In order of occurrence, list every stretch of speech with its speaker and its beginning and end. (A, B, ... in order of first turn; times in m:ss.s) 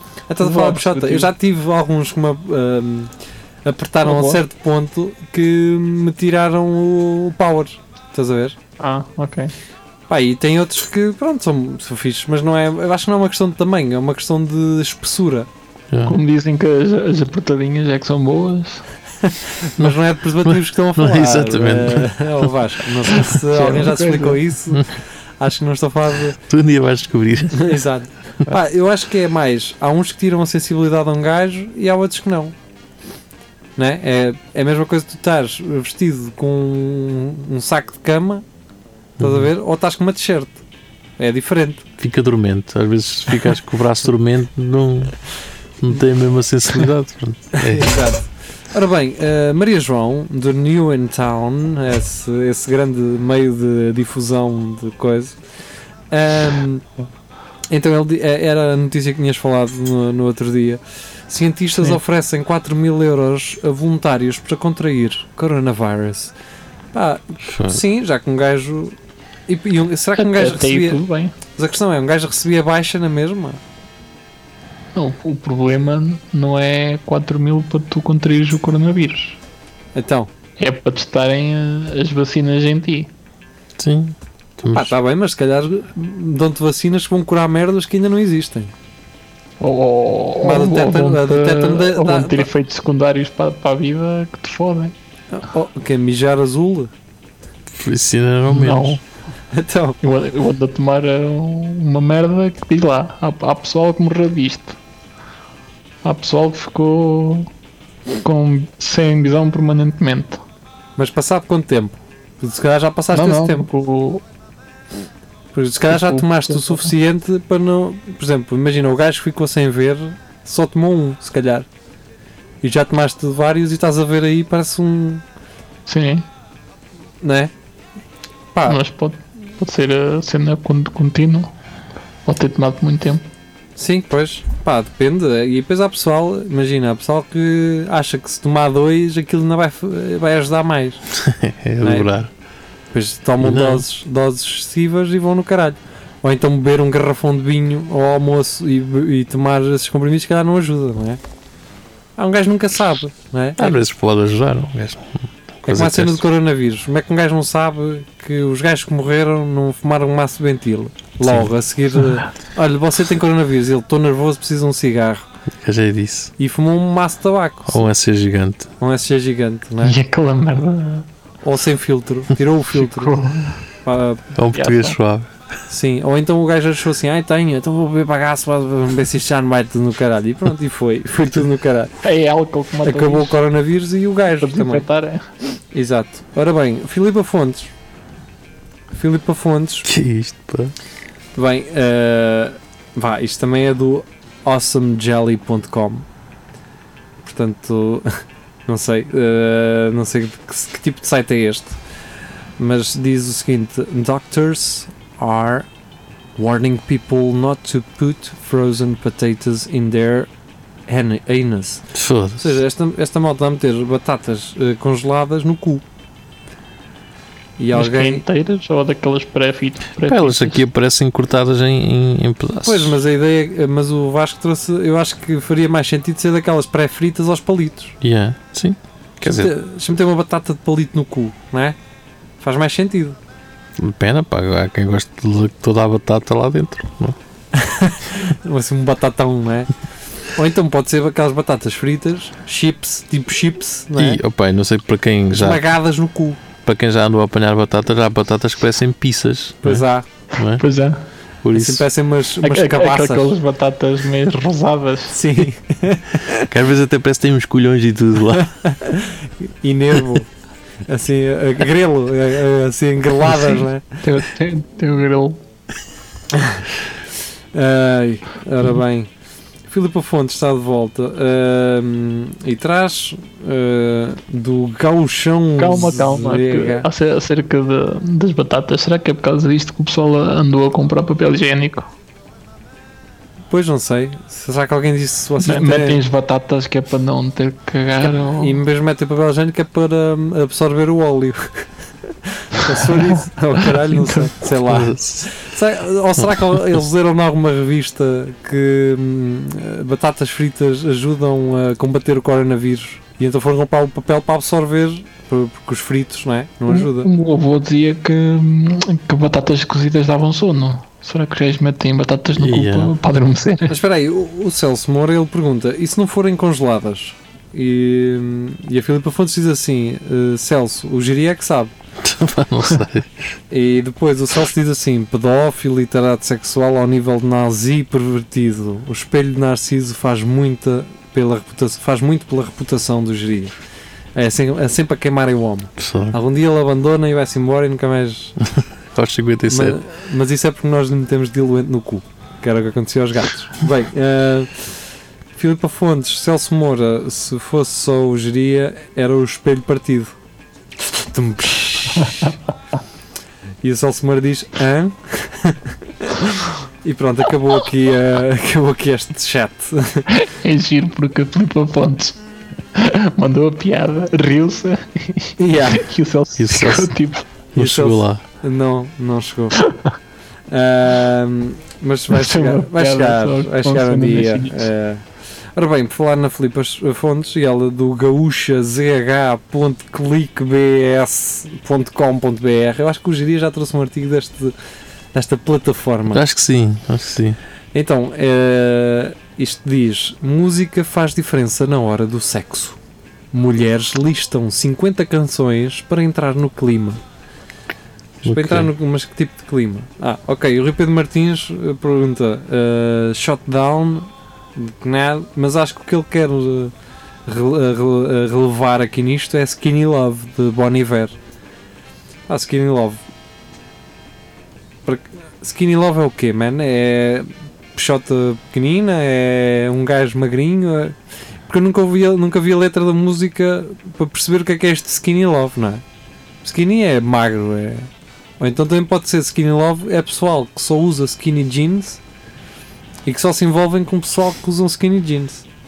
0:00.3-0:03.1 A
0:00.4-0:01.3 B
0:03.6-0:08.6 A
0:04.0-0:04.4 B
0:08.8-0:09.5 B
0:10.1-0:15.5 A
0:15.9-0:16.2 C
0:16.1-0:18.9 B
0:19.2-0:26.4 A
0:19.8-0:22.5 C
0:23.5-0:24.4 B
0:26.4-0:27.8 C
0:27.5-0:32.5 A
0:33.8-0:38.4 A
0:39.2-0:39.5 C
0:39.2-0:40.6 A
0:41.2-0:41.8 A
0:42.0-0:45.2 C
0:45.8-0:48.0 C
0:47.6-0:55.4 A
0:56.1-0:56.9 A
0:57.7-1:06.3 A
1:06.9-1:09.0 A
1:07.4-1:07.8 C
1:09.5-1:11.0 A
1:10.2-1:11.3 B
1:11.6-1:13.6 A
1:14.9-1:19.4 B
1:19.9-1:20.3 A
1:20.6-1:23.1 B
1:23.8-1:24.9 C
1:24.7-1:28.7 A
1:29.6-1:34.9 B
1:30.4-1:32.5 A
1:35.3-1:36.9 A
1:37.7-1:39.0 C
1:38.5-1:39.0 B
1:39.5-1:40.0 A
1:40.0-1:44.8 B
1:46.0-1:47.5 B
1:48.2-1:50.4 B
1:51.0-1:53.7 A
1:53.1-1:54.2 B
1:55.5-2:01.7 A
1:55.9-1:56.9 B
2:02.6-2:05.2 A
2:05.8-2:06.2 B
2:07.2-2:07.5 A
2:08.6-2:11.5 B
2:12.2-2:13.2 B
2:13.8-2:21.0 A
2:21.1-2:22.3 C
2:21.8-2:22.1 A
2:22.9-2:31.2 A
2:23.4-2:23.8 C
2:32.2-2:33.9 A
2:33.6-2:36.2 C
2:35.7-2:45.3 A
2:41.2-2:41.5 C
2:45.5-2:46.3 C
2:46.4-2:47.8 A
2:47.7-2:48.7 C
2:48.8-2:50.0 A
2:49.8-2:51.1 B
2:51.4-2:53.1 A
2:52.7-2:53.6 B
2:53.8-2:54.2 A
2:54.3-2:55.3 C
2:54.5-2:55.0 B
2:55.7-3:01.9 A
3:02.0-3:03.4 B
3:02.8-3:04.8 A
3:04.4-3:05.2 B
3:05.7-3:07.7 A
3:08.9-3:09.9 A
3:09.8-3:10.7 C
3:11.3-3:16.0 A
3:17.2-3:21.8 A
3:22.6-3:25.7 A
3:26.4-3:30.3 A
3:30.9-3:31.8 A
3:31.9-3:32.6 C
3:32.4-3:35.8 A
3:37.6-3:38.2 A
3:37.7-3:40.6 B
3:40.0-3:43.0 C
3:42.6-3:48.0 A
3:48.0-3:49.5 C
3:49.2-3:51.8 A
3:52.4-3:53.2 A
3:53.8-3:57.2 C
3:57.5-3:59.7 A
4:00.3-4:04.2 A
4:04.0-4:05.6 C
4:05.3-4:06.4 A
4:06.6-4:10.6 C
4:09.6-4:10.1 A
4:10.6-4:11.1 B
4:11.4-4:11.8 C
4:11.5-4:13.3 A
4:12.4-4:15.4 B
4:15.1-4:16.5 A
4:16.5-4:18.5 C
4:18.4-4:20.3 A
4:20.9-4:23.8 A
4:24.0-4:25.4 B
4:26.3-4:26.6 A
4:27.5-4:29.1 A
4:29.7-4:36.9 A
4:35.6-4:41.9 B
4:43.5-4:46.0 A
4:45.4-4:48.6 B
4:48.1-5:07.1 A
4:53.6-4:54.3 B
4:54.7-4:55.3 C
4:56.2-4:56.6 C
5:06.7-5:13.8 B
5:12.4-5:12.9 C
5:13.7-5:21.7 A
5:22.0-5:23.3 C
5:23.5-5:33.5 A
5:34.1-5:38.4 A
5:35.8-5:36.2 C
5:38.6-5:39.8 C
5:39.5-5:44.8 A
5:45.3-5:50.1 A
5:50.8-5:52.3 A
5:52.0-5:52.3 B
5:53.6-6:00.1 A
6:00.2-6:02.2 B
6:02.7-6:07.3 B
6:05.4-6:05.8 A
6:06.4-6:06.9 C
6:07.5-6:08.2 C
6:07.6-6:09.6 A
6:09.6-6:09.9 B
6:10.5-6:24.5 A
6:12.1-6:14.7 B
6:25.1-6:26.2 A
6:26.1-6:27.4 C
6:27.7-6:32.8 A
6:33.3-6:37.0 A
6:38.2-6:46.7 A
6:38.2-6:38.7 C
6:47.3-6:51.1 A
6:52.3-6:53.0 A
6:54.8-7:00.9 A
7:01.5-7:05.8 A
7:06.4-7:07.9 A
7:08.4-7:12.0 A
7:13.0-7:15.4 A